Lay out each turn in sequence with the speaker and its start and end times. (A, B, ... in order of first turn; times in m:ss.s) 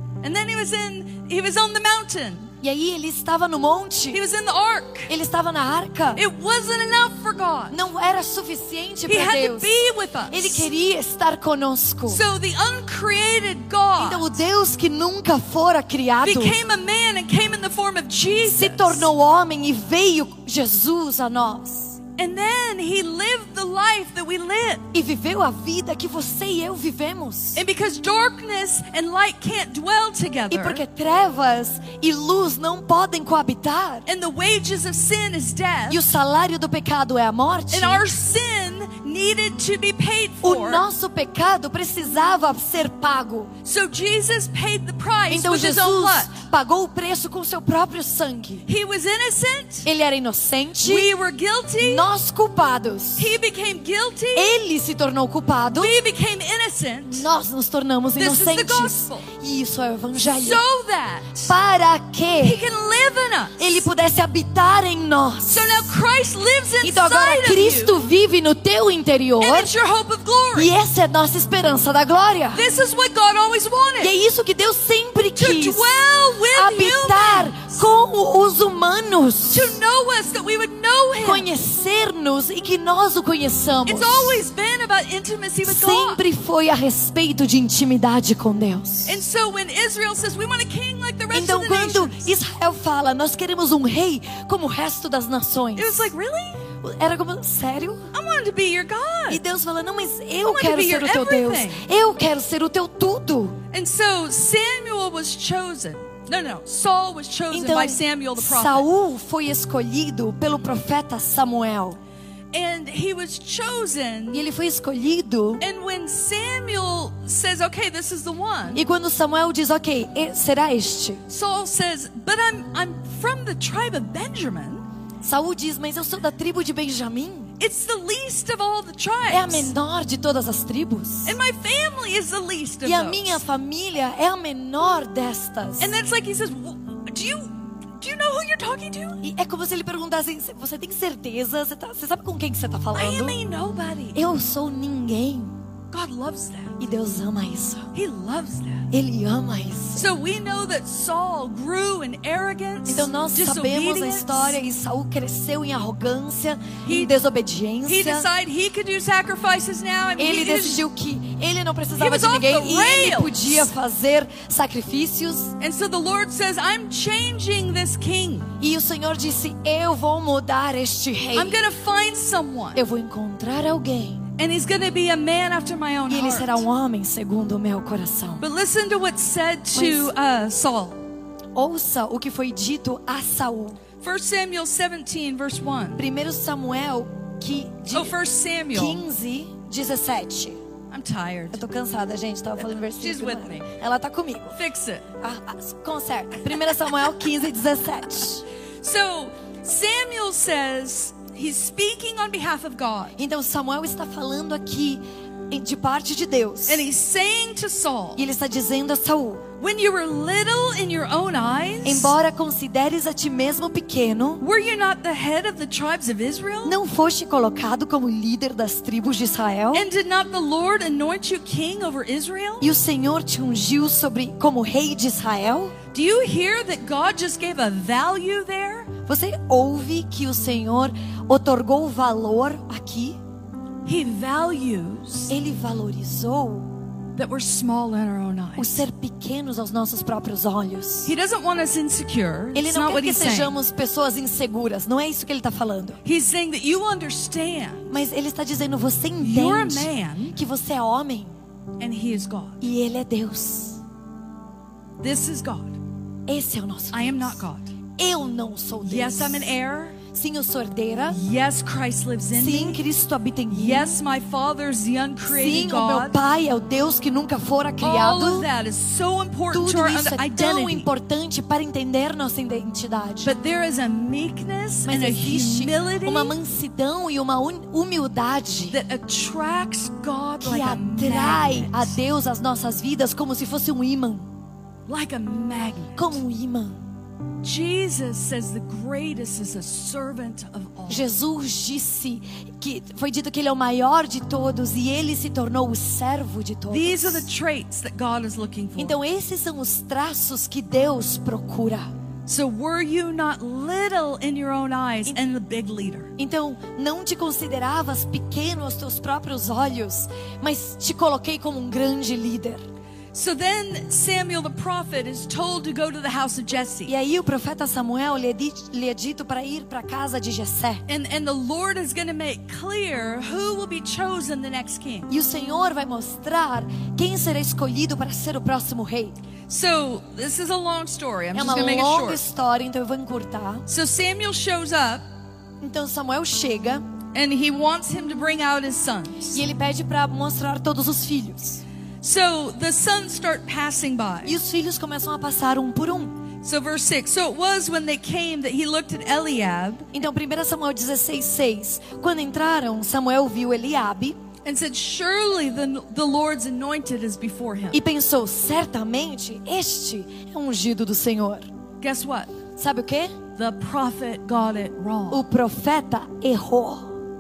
0:00.2-0:02.5 A
0:02.6-0:04.2 B
0:04.1-0:05.1 A
0:05.1-0:06.2 B
0:06.2-0:07.8 A
0:07.7-0:09.8 B
0:09.1-0:10.7 A
0:10.3-0:12.2 B
0:12.1-0:14.3 A
0:14.0-0:16.6 B
0:16.2-0:19.1 A
0:18.4-0:22.0 B
0:22.2-0:24.8 A
0:24.9-0:27.6 B
0:27.6-0:30.8 A
0:30.5-0:34.0 B
0:34.1-0:36.0 A
0:35.9-0:38.1 B
0:37.7-0:40.9 A
0:40.4-0:43.5 B
0:43.6-0:46.4 A
0:45.3-0:48.6 B
0:48.7-0:49.9 A
0:49.8-0:51.1 B
0:50.8-0:52.1 A
0:51.8-0:53.3 B
0:53.2-0:54.6 A
0:54.3-0:56.0 B
0:55.7-0:57.3 A
0:57.1-1:00.6 B
0:58.2-0:59.3 A
1:00.2-1:01.5 A
1:01.5-1:02.6 B
1:02.4-1:03.6 A
1:03.6-1:06.0 B
1:05.5-1:08.0 A
1:06.8-1:09.7 B
1:09.4-1:10.7 A
1:10.5-1:12.6 B
1:12.5-1:14.1 A
1:14.0-1:15.9 B
1:15.4-1:17.6 A
1:16.5-1:19.8 B
1:19.5-1:21.5 A
1:21.2-1:24.4 B
1:23.9-1:26.2 A
1:25.6-1:29.2 B
1:29.1-1:32.3 A
1:31.3-1:36.1 B
1:35.8-1:36.6 A
1:36.8-1:38.1 B
1:38.1-1:39.4 A
1:39.3-1:43.6 B
1:40.4-1:41.8 A
1:43.7-1:48.9 A
1:47.5-1:52.0 B
1:52.5-1:54.5 A
1:54.3-1:55.6 B
1:55.6-1:58.8 A
1:58.7-2:01.2 B
2:01.3-2:04.8 A
2:05.2-2:07.5 B
2:07.6-2:09.7 A
2:09.3-2:11.4 B
2:11.2-2:13.4 A
2:12.8-2:16.0 B
2:15.8-2:19.2 A
2:19.2-2:23.4 B
2:22.9-2:24.2 A
2:24.2-2:25.6 B
2:25.9-2:26.8 A
2:26.8-2:27.9 B
2:27.9-2:28.9 A
2:28.9-2:30.1 B
2:30.0-2:34.6 A
2:32.9-2:38.3 B
2:36.8-2:37.2 A
2:37.9-2:40.9 A
2:40.2-2:45.5 B
2:42.0-2:43.7 A
2:45.6-2:48.5 A
2:48.6-2:51.6 B
2:51.3-2:52.8 A
2:52.8-2:54.2 B
2:54.4-2:56.6 A
2:56.1-2:58.4 B
2:58.4-3:01.0 A
2:59.7-3:00.1 B
3:01.6-3:03.8 B
3:04.0-3:06.0 A
3:06.0-3:08.2 B
3:07.9-3:09.0 A
3:08.7-3:10.6 B
3:10.9-3:11.6 A
3:11.5-3:14.6 B
3:12.9-3:13.7 A
3:14.5-3:15.1 A
3:15.2-3:18.4 B
3:18.8-3:23.2 A
3:23.2-3:26.8 B
3:26.7-3:28.2 A
3:28.2-3:29.4 B
3:29.6-3:32.1 A
3:31.8-3:34.4 B
3:34.4-3:36.8 A
3:36.6-3:39.9 B
3:39.7-3:42.7 A
3:42.6-3:45.8 B
3:45.9-3:48.9 A
3:49.1-3:53.2 B
3:53.9-3:55.4 A
3:55.3-3:56.7 B
3:57.2-3:58.8 A
3:58.6-4:01.1 B
4:01.0-4:03.6 A
4:02.5-4:06.0 B
4:06.0-4:08.0 A
4:07.9-4:11.4 B
4:09.2-4:10.4 A
4:11.8-4:12.6 A
4:12.6-4:13.8 B
4:15.0-4:15.8 A
4:16.3-4:17.4 B
4:16.9-4:17.7 A
4:18.0-4:19.5 B
4:18.8-4:20.0 A
4:20.1-4:21.2 B
4:21.1-4:22.8 A
4:22.3-4:24.0 B
4:23.5-4:26.2 A
4:25.3-4:28.5 B
4:27.8-4:30.9 A
4:29.5-4:33.3 B
4:33.2-4:36.4 A
4:34.9-4:38.8 B
4:38.7-4:41.9 A
4:40.4-4:44.3 B
4:44.9-4:46.2 A
4:46.0-4:46.8 B
4:47.4-4:51.1 A
4:50.9-4:57.3 B
4:56.7-4:59.0 A
4:58.8-5:01.9 B
5:02.3-5:06.1 A
5:06.2-5:12.6 B
5:13.1-5:16.9 A
5:16.9-5:20.8 B
5:20.9-5:25.1 A
5:25.1-5:29.2 B
5:29.5-5:32.2 A
5:31.3-5:33.6 B
5:33.7-5:35.0 A
5:35.6-5:36.8 B
5:37.1-5:39.4 A
5:39.3-5:41.6 B
5:42.0-5:44.4 A
5:44.2-5:46.2 B
5:46.4-5:49.9 A
5:49.9-5:54.2 B
5:54.4-5:57.8 A
5:57.7-6:01.5 B
6:01.8-6:02.3 A
6:02.6-6:03.2 B
6:03.4-6:05.2 A
6:05.1-6:06.9 B